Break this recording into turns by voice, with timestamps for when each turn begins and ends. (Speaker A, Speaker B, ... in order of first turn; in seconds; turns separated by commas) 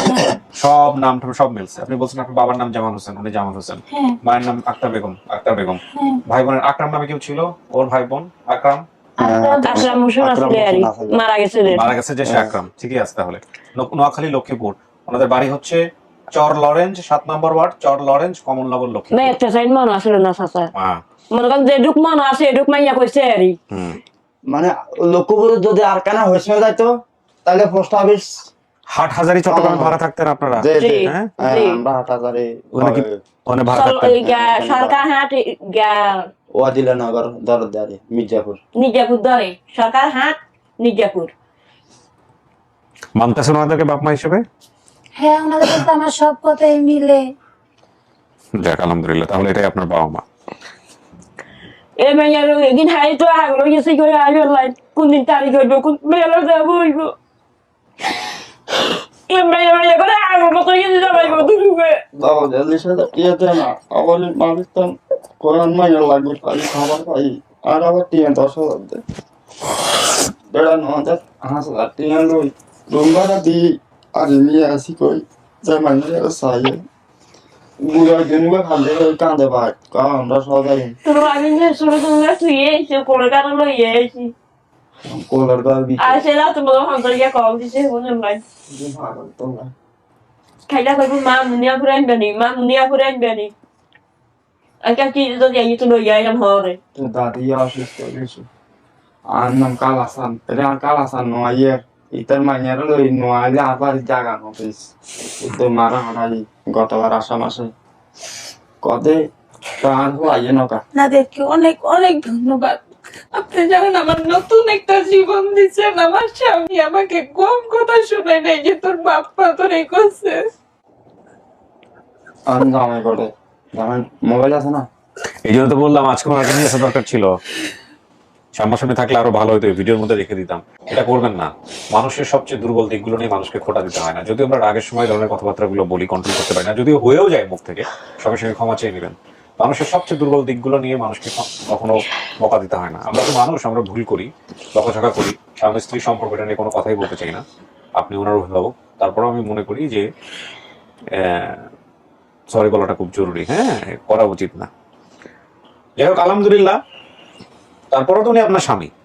Speaker A: 0.2-8.8, Speaker B: 3.9-4.2, Speaker B: 5.9-6.2, Speaker B: 9.2-9.9, Speaker C: 9.2-11.2, Speaker D: 9.6-11.8, Speaker A: 11.7-15.8, Speaker C: 11.7-12.6, Speaker A: 16.3-19.4, Speaker D: 19.1-20.7, Speaker A: 20.7-21.0, Speaker D: 21.3-23.6, Speaker A: 23.7-24.0, Speaker C: 24.5-26.9, Speaker C: 27.4-28.5, Speaker A: 28.9-31.3, Speaker C: 29.5-29.9, Speaker C: 30.5-33.2, Speaker D: 30.8-31.8, Speaker A: 32.8-34.2, Speaker D: 33.7-36.2, Speaker C: 34.2-35.0, Speaker C: 36.6-38.6, Speaker D: 38.8-41.3, Speaker A: 43.1-44.4, Speaker B: 45.2-47.2, Speaker A: 48.6-50.2, Speaker D: 52.0-57.1, Speaker D: 59.3-61.9, Speaker C: 61.1-61.5, Speaker C: 62.2-69.0, Speaker C: 70.5-76.8, Speaker C: 77.8-81.0, Speaker D: 81.0-84.3, Speaker C: 85.0-86.2, Speaker D: 86.0-88.4, Speaker C: 88.7-89.7, Speaker D: 90.7-93.5, Speaker D: 94.8-96.8, Speaker C: 96.9-98.5, Speaker C: 99.3-107.7, Speaker C: 108.8-109.2, Speaker C: 109.8-110.8, Speaker B: 111.0-111.3, Speaker E: 111.1-112.8, Speaker E: 113.3-120.4, Speaker C: 122.5-124.9, Speaker A: 125.4-127.3, Speaker A: 128.6-147.4, Speaker A: 148.0-150.1, Speaker A: 151.1-151.7, Speaker A: 152.5-154.7, Speaker A: 156.0-156.8, Speaker A: 157.9-158.9